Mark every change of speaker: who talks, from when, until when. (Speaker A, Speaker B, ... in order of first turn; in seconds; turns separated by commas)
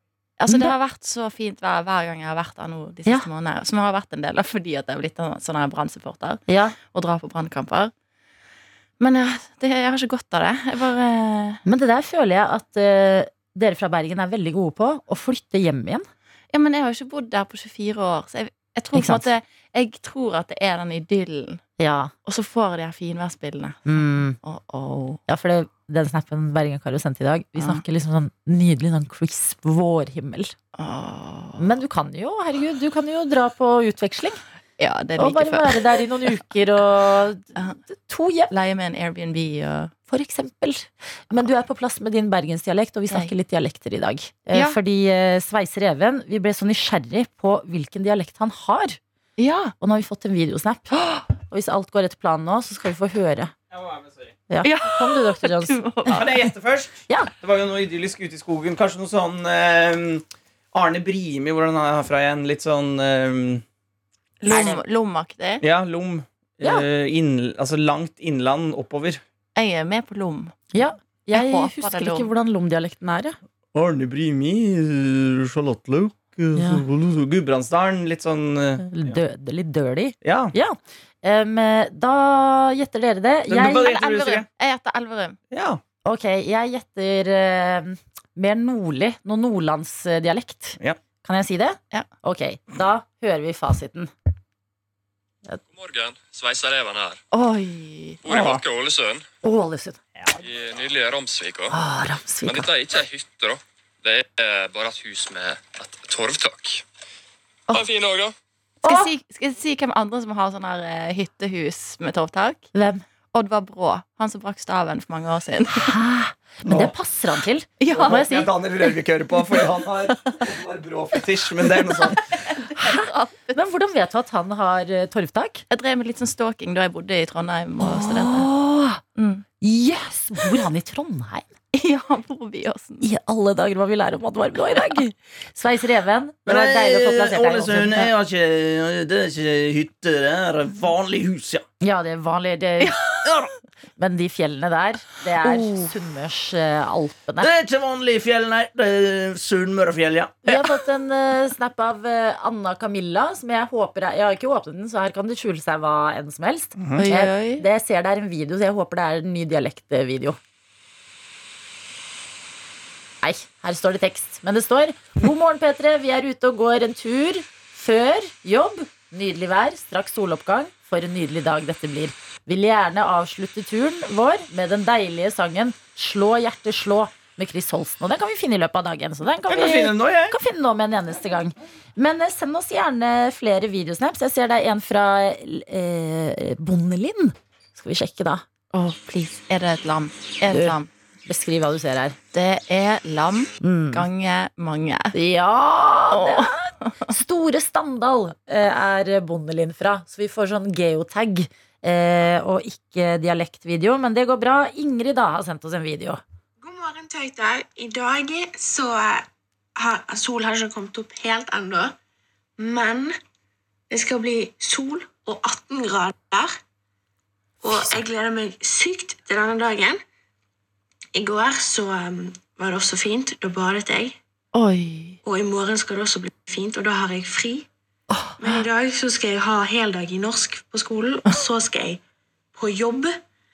Speaker A: 0.4-7.9, Speaker B: 0.5-0.7, Speaker B: 6.5-6.8, Speaker A: 9.0-11.6, Speaker B: 11.6-16.1, Speaker A: 16.5-21.6, Speaker B: 18.9-19.3, Speaker B: 21.8-22.1, Speaker A: 22.2-25.2, Speaker B: 23.9-24.4, Speaker B: 25.3-30.5, Speaker A: 27.6-27.8, Speaker A: 30.8-31.7, Speaker B: 31.6-34.4, Speaker A: 34.8-35.9, Speaker B: 35.2-38.5, Speaker A: 38.5-39.9, Speaker B: 40.1-49.0, Speaker A: 49.4-49.7, Speaker B: 49.8-53.5, Speaker C: 53.7-54.3, Speaker B: 54.5-55.8, Speaker A: 54.6-56.5, Speaker C: 56.1-63.6, Speaker A: 64.4-65.6, Speaker B: 64.5-64.8, Speaker C: 65.6-69.2, Speaker A: 69.5-70.5, Speaker B: 70.7-73.4, Speaker A: 71.3-72.3, Speaker C: 73.7-79.2, Speaker B: 76.5-76.8, Speaker B: 78.8-83.9, Speaker C: 80.2-80.5, Speaker C: 83.5-84.5, Speaker A: 83.7-85.4, Speaker C: 85.5-85.8, Speaker B: 86.0-94.1, Speaker D: 95.7-97.2, Speaker A: 97.3-98.2, Speaker D: 98.2-99.2, Speaker B: 99.4-100.0, Speaker D: 100.4-101.8, Speaker B: 101.7-102.7, Speaker D: 102.4-106.8, Speaker D: 107.7-108.3, Speaker B: 108.8-109.1, Speaker A: 108.8-112.7, Speaker B: 112.7-113.0, Speaker A: 113.3-115.9, Speaker B: 115.8-118.5, Speaker C: 116.6-116.9, Speaker A: 117.8-118.3, Speaker C: 117.9-122.2, Speaker A: 122.5-123.6, Speaker B: 122.7-125.6, Speaker A: 125.7-128.5, Speaker B: 127.8-129.0, Speaker A: 129.2-129.4, Speaker B: 129.6-131.5, Speaker A: 131.7-133.0, Speaker B: 133.0-138.1, Speaker C: 136.5-141.6, Speaker B: 141.8-143.0, Speaker A: 142.8-143.1, Speaker C: 143.2-143.5, Speaker B: 144.0-147.5, Speaker A: 145.4-145.9, Speaker C: 147.4-150.4, Speaker B: 150.4-160.4, Speaker C: 156.8-157.0, Speaker A: 157.0-157.6, Speaker B: 163.2-188.4, Speaker C: 179.5-180.3, Speaker A: 188.7-190.9, Speaker B: 190.5-192.2, Speaker A: 192.3-195.1, Speaker B: 193.6-194.1, Speaker B: 195.1-196.6, Speaker A: 196.1-196.9, Speaker B: 197.1-206.2, Speaker E: 206.6-212.0, Speaker E: 212.6-213.2, Speaker E: 213.9-216.6, Speaker E: 217.6-220.0, Speaker E: 221.1-224.2, Speaker A: 224.5-225.2, Speaker E: 225.2-227.7, Speaker A: 228.2-228.6, Speaker E: 228.4-232.0, Speaker E: 232.5-233.2